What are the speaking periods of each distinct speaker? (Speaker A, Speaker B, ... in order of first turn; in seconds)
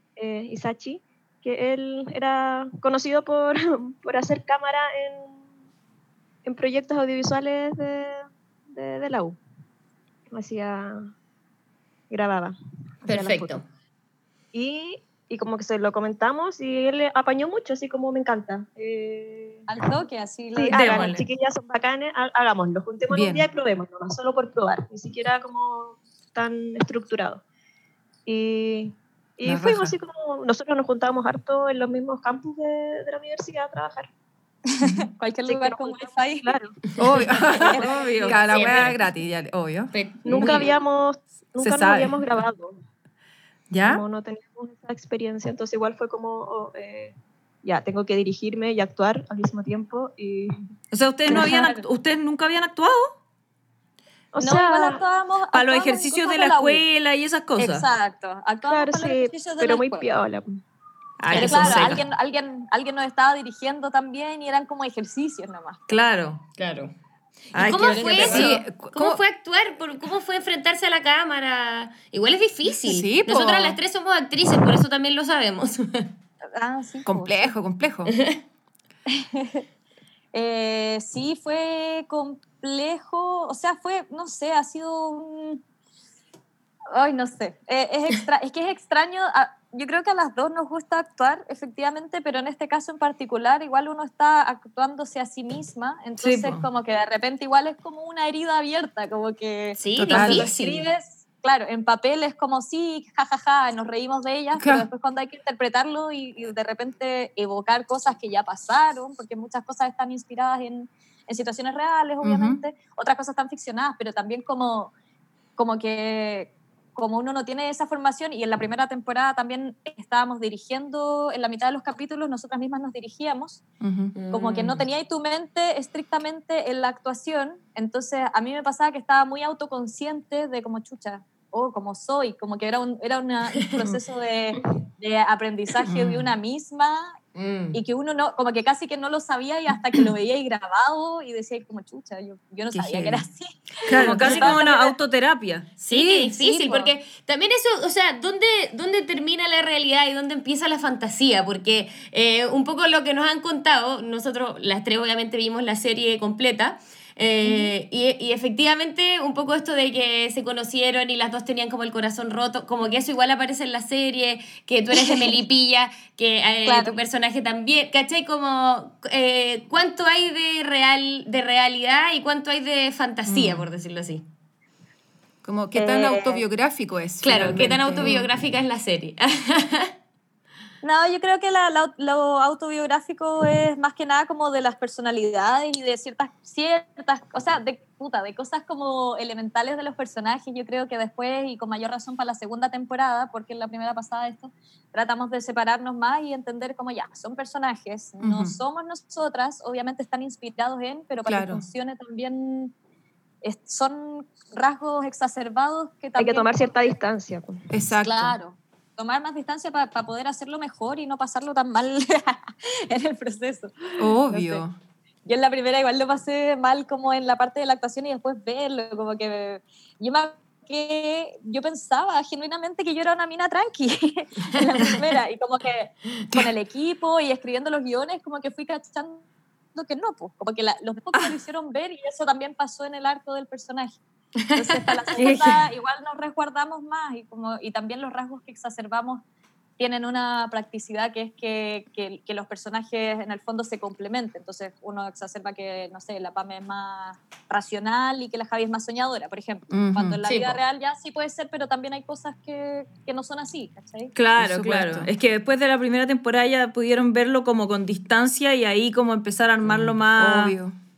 Speaker A: 0.2-5.4, 6.4-9.4, 10.3-11.1, 12.1-12.5, 13.1-13.6, 14.5-19.8, 20.5-27.4, 28.2-34.1, 35.5-36.8, 40.2-42.8, 43.8-50.5, 54.3-55.0, 58.7-60.6, 206.2-207.6
Speaker B: 13.0-13.6, 38.5-39.0, 39.9-40.7, 61.2-62.0, 66.6-66.9, 67.5-76.1, 78.1-78.4, 99.8-100.8, 124.1-124.8, 137.3-137.8, 144.2-144.5, 145.8-174.2, 177.2-179.9, 250.2-250.6
Speaker C: 19.7-21.2, 34.7-36.5, 37.5-38.2, 51.3-51.9, 54.4-56.9, 57.6-60.1, 61.3-65.8, 67.9-68.5, 76.5-77.5, 79.2-79.6, 80.3-85.6, 86.9-114.9, 115.5-123.6, 124.3-137.2, 137.7-144.9, 145.9-146.9, 157.4-157.7, 164.9-165.3, 166.7-167.0, 175.7-176.4, 180.8-202.7, 203.4-206.9, 208.0-214.6, 215.2-234.0, 234.5-239.2, 239.8-254.1
Speaker D: 20.7-21.2, 37.7-38.4, 50.9-53.1, 55.5-57.9, 61.2-62.0, 65.9-66.4, 67.5-68.6, 96.2-96.6, 143.9-145.8, 235.2-235.7, 254.1-260.6
Speaker E: 23.1-23.4, 29.4-29.9, 37.0-40.6, 41.6-42.2, 43.7-44.0, 68.1-69.2, 72.8-73.8, 77.0-78.1, 99.9-100.5, 104.6-104.9, 112.2-112.6, 123.8-124.1, 135.8-136.3, 142.7-143.2, 173.3-173.7, 175.4-178.3, 198.2-198.5, 201.2-201.6, 207.7-208.3, 214.0-214.7, 249.7-250.2, 254.4-255.1, 259.7-260.7